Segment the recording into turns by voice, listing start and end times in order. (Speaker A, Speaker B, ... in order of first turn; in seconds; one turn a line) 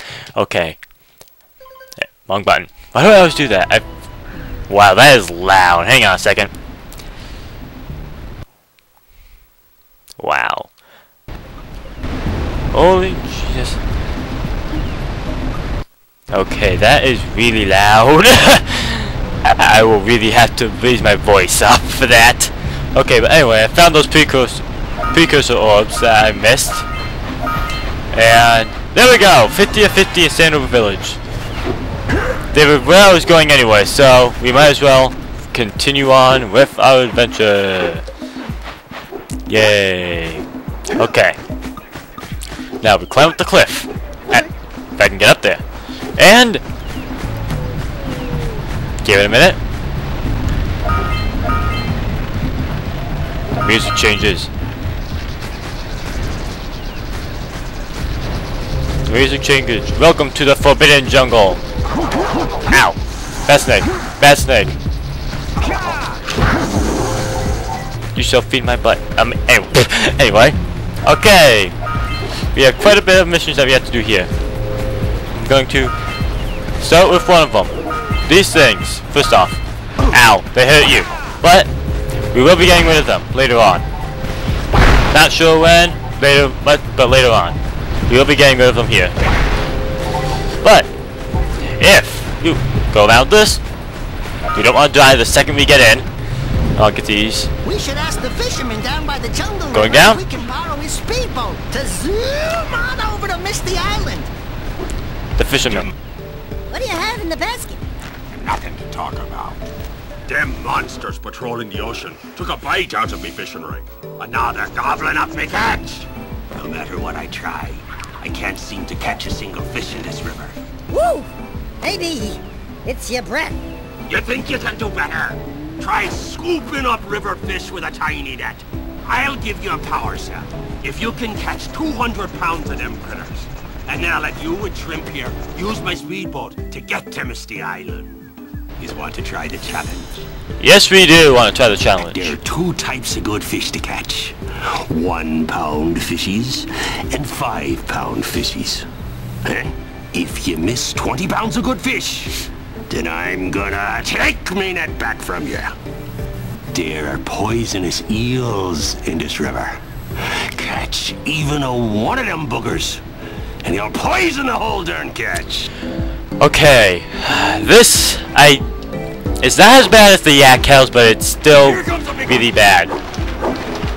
Speaker A: 0.3-0.8
Speaker A: 2.0-3.8
Speaker A: 4.7-6.5
Speaker A: 10.2-10.7
Speaker A: 12.7-13.8
Speaker A: 16.3-26.9
Speaker A: 28.1-31.2
Speaker A: 32.5-38.0
Speaker A: 39.5-41.4
Speaker A: 42.8-45.6
Speaker A: 46.2-46.6
Speaker A: 49.0-49.6
Speaker A: 53.5-54.5
Speaker A: 59.0-61.6
Speaker A: 62.7-64.8
Speaker A: 68.1-71.7
Speaker A: 72.5-74.3
Speaker A: 75.3-75.9
Speaker A: 76.8-81.7
Speaker A: 82.3-83.8
Speaker A: 85.1-89.1
Speaker A: 90.6-90.9
Speaker A: 91.6-93.6
Speaker A: 94.5-96.1
Speaker A: 96.8-97.5
Speaker B: 97.6-104.3
Speaker A: 99.7-100.2
Speaker A: 105.3-105.9
Speaker B: 106.7-107.8
Speaker C: 108.3-109.6
Speaker C: 110.3-120.5
Speaker B: 120.9-121.3
Speaker B: 121.8-123.6
Speaker C: 124.1-138.2
Speaker C: 138.8-140.2
Speaker A: 140.6-142.3
Speaker C: 142.0-148.9
Speaker C: 149.4-155.7
Speaker C: 156.7-163.0
Speaker C: 163.6-165.7
Speaker A: 166.4-168.6
Speaker A: 169.4-172.9
Speaker C: 171.5-172.4